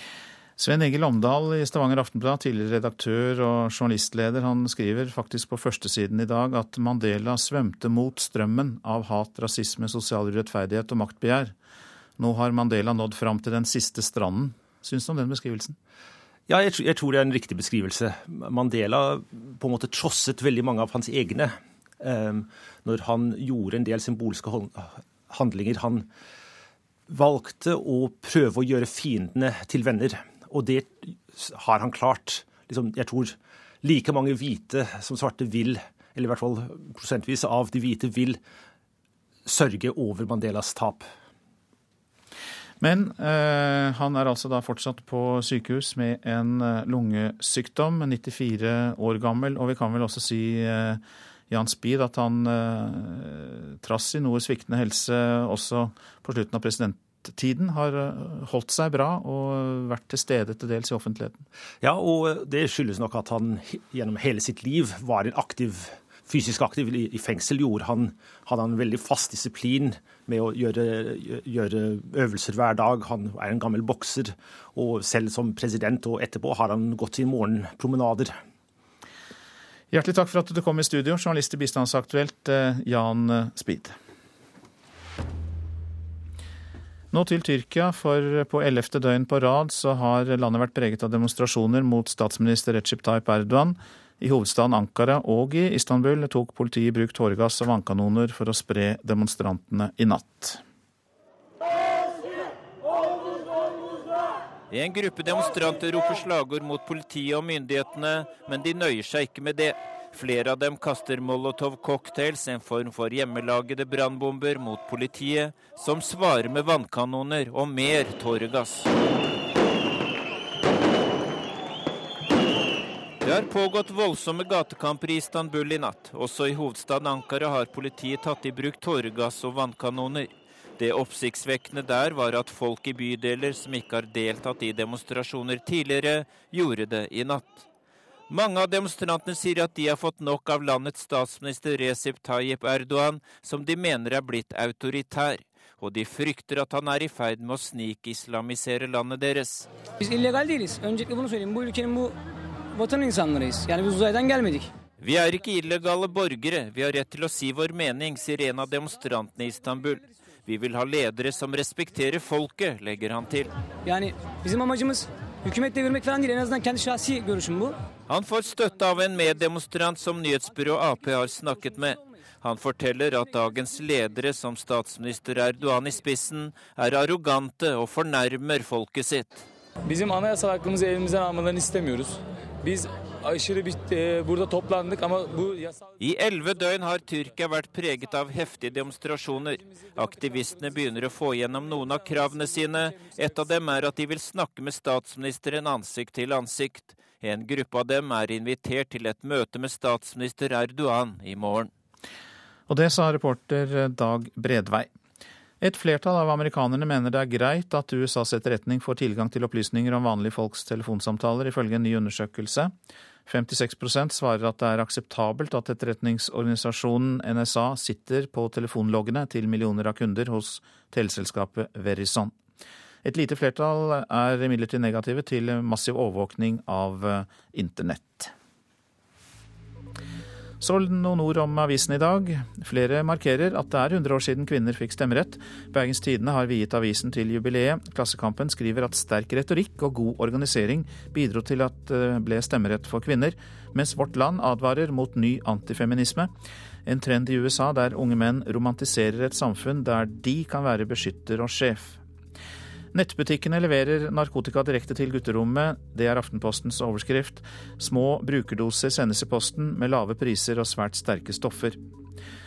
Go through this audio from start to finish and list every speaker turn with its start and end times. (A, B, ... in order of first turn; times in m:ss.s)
0:00.6-0:11.5 A
0:12.2-0:15.8 A
0:16.5-0:26.1 B
0:27.1-0:38.4 B
0:39.5-0:41.1 B
0:42.8-1:01.4 A
1:01.8-1:18.4 B
1:19.9-1:24.0 A
1:27.1-1:40.6 A
1:44.7-1:58.9 C
2:03.2-2:17.7 C
2:18.3-2:29.7 C
2:30.2-2:31.2 D
2:33.5-2:34.4 D
2:35.0-2:43.5 C
2:44.5-2:44.8 D
2:45.5-2:47.6 D
2:48.1-2:59.5 C
3:00.0-3:01.9 D
3:03.4-3:05.5 D
3:06.0-3:21.7 C
3:22.7-3:24.9 A
3:25.6-3:32.7 A
3:33.3-3:42.3 A
3:43.0-3:48.3 A
3:50.6-4:06.3 A
4:06.9-4:12.0 A
4:12.9-4:21.8 A